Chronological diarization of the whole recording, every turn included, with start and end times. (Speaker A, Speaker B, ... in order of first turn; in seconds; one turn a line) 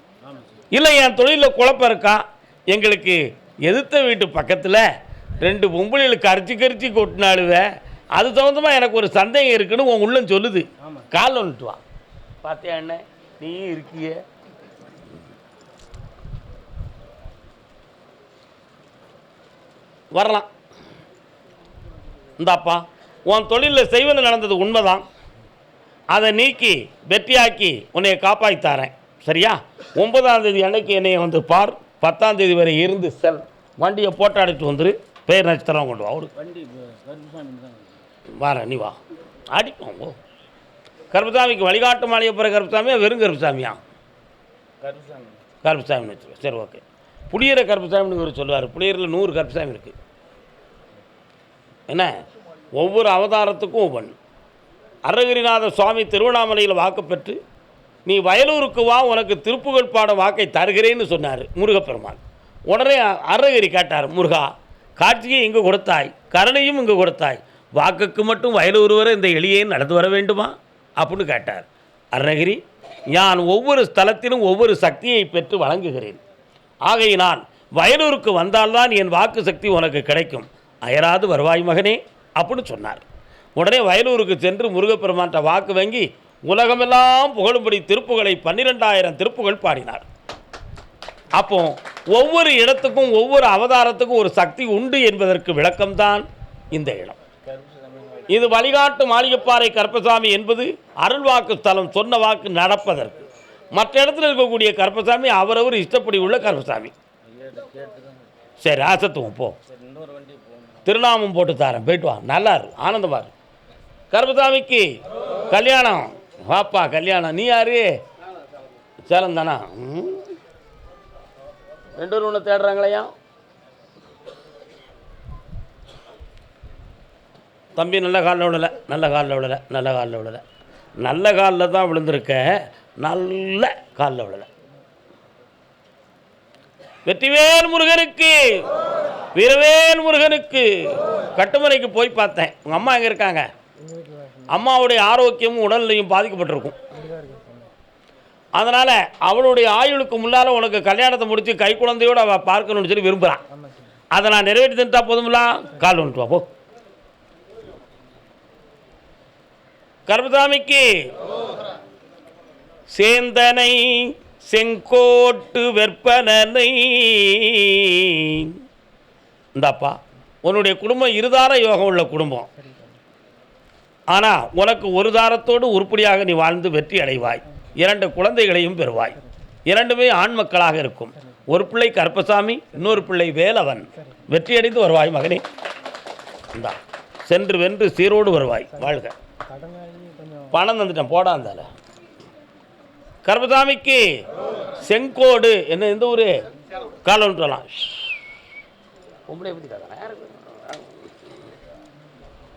Speaker A: 0.7-4.8
Speaker A: 5.4-7.6
Speaker A: 8.2-11.8
Speaker A: 12.4-14.2
Speaker A: 20.1-20.5
Speaker A: 22.4-25.0
Speaker A: 26.1-36.3
Speaker B: 36.4-38.0
Speaker A: 38.4-39.0
Speaker A: 39.5-40.2
Speaker A: 41.1-43.8
Speaker B: 44.8-45.3
Speaker A: 45.6-50.0
Speaker A: 52.8-54.1
Speaker A: 55.0-57.4
Speaker A: 58.0-72.6
Speaker A: 73.1-76.2
Speaker A: 76.9-83.0
Speaker A: 83.5-90.0
Speaker A: 91.3-97.2
Speaker B: 97.5-98.3
Speaker A: 98.3-106.9
Speaker B: 107.3-108.2
Speaker A: 108.6-109.5
Speaker B: 109.7-110.8
Speaker A: 110.8-113.3
Speaker A: 114.1-114.8
Speaker A: 115.5-117.9
Speaker A: 119.1-120.2
Speaker A: 122.0-123.1
Speaker A: 127.8-130.4
Speaker A: 131.0-134.5
Speaker A: 137.1-138.6
Speaker A: 139.4-143.4
Speaker A: 144.5-146.8
Speaker B: 147.1-147.5
Speaker A: 148.6-153.4
Speaker A: 154.1-156.4
Speaker A: 160.1-160.9
Speaker A: 162.9-168.6
Speaker A: 169.6-172.5
Speaker A: 174.1-185.4
Speaker A: 186.5-189.1
Speaker B: 189.6-190.5
Speaker A: 190.5-191.7
Speaker A: 193.2-194.0
Speaker A: 194.8-196.3
Speaker A: 197.0-198.1
Speaker A: 199.3-201.1